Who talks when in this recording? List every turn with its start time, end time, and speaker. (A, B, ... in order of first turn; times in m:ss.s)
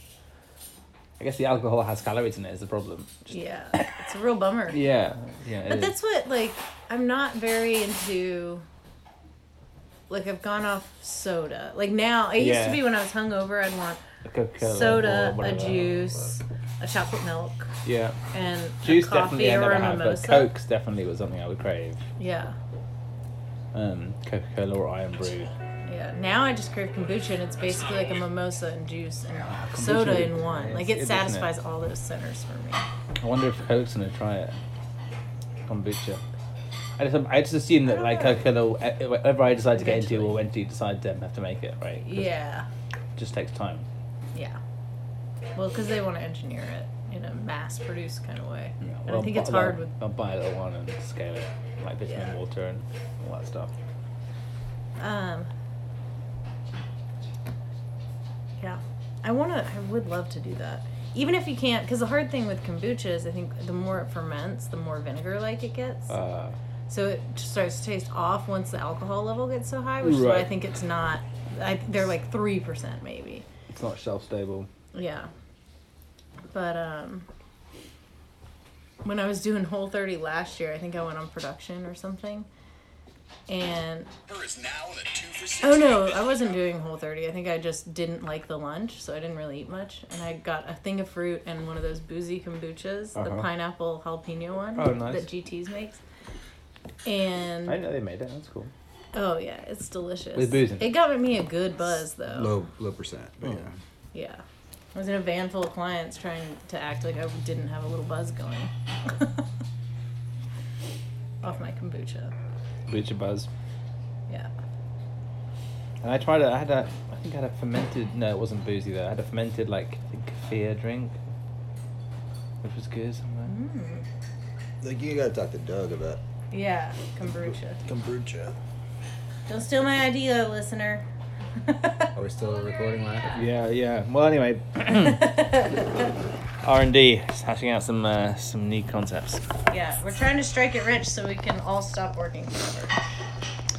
0:01.2-0:03.9 A
0:03.3-0:04.8 B
0:04.7-0:06.0 A
0:05.6-0:08.6 B
0:10.1-0:14.0 B
0:12.4-0:12.9 A
0:14.2-0:16.3 A
0:14.6-0:17.7 B
0:17.8-0:18.2 A
0:18.3-0:20.5 B
0:18.8-0:22.0 A
0:22.2-0:22.6 B
0:23.7-0:25.5 A
0:25.8-0:32.8 B
0:29.5-0:31.5 A
0:33.2-0:34.6 A
0:35.6-0:36.2 A
0:37.0-0:42.3 A
0:39.8-0:40.4 B
0:42.0-0:42.7 B
0:43.2-0:43.9 A
0:44.3-0:44.6 B
0:45.6-0:49.9 B
0:48.8-0:53.7 A
0:52.1-0:52.3 B
0:55.0-0:55.5 B
0:58.6-1:06.1 B
1:06.1-1:06.6 A
1:06.9-1:13.4 B
1:10.0-1:10.5 A
1:13.7-1:14.7 A
1:14.9-1:15.3 B
1:16.5-1:17.3 B
1:19.0-1:22.5 B
1:23.5-1:24.1 B
1:25.6-1:36.0 B
1:33.2-1:33.5 A
1:34.8-1:35.3 A
1:37.0-1:37.8 B
1:37.6-1:38.7 A
1:39.1-1:42.6 B
1:40.4-1:40.9 A
1:42.3-1:43.7 C
1:44.1-1:44.4 B
1:44.9-1:49.4 B
1:51.4-1:52.3 B
1:52.9-1:53.5 A
1:56.0-2:01.2 A
2:02.6-2:03.5 A
2:03.4-2:04.0 B
2:04.8-2:06.2 C
2:06.5-2:07.8 B
2:07.8-2:08.6 C
2:09.5-2:11.0 B
2:11.6-2:12.1 B
2:12.2-2:13.4 C
2:13.3-2:15.5 A
2:15.0-2:15.9 B
2:16.6-2:19.4 A
2:19.7-2:22.9 B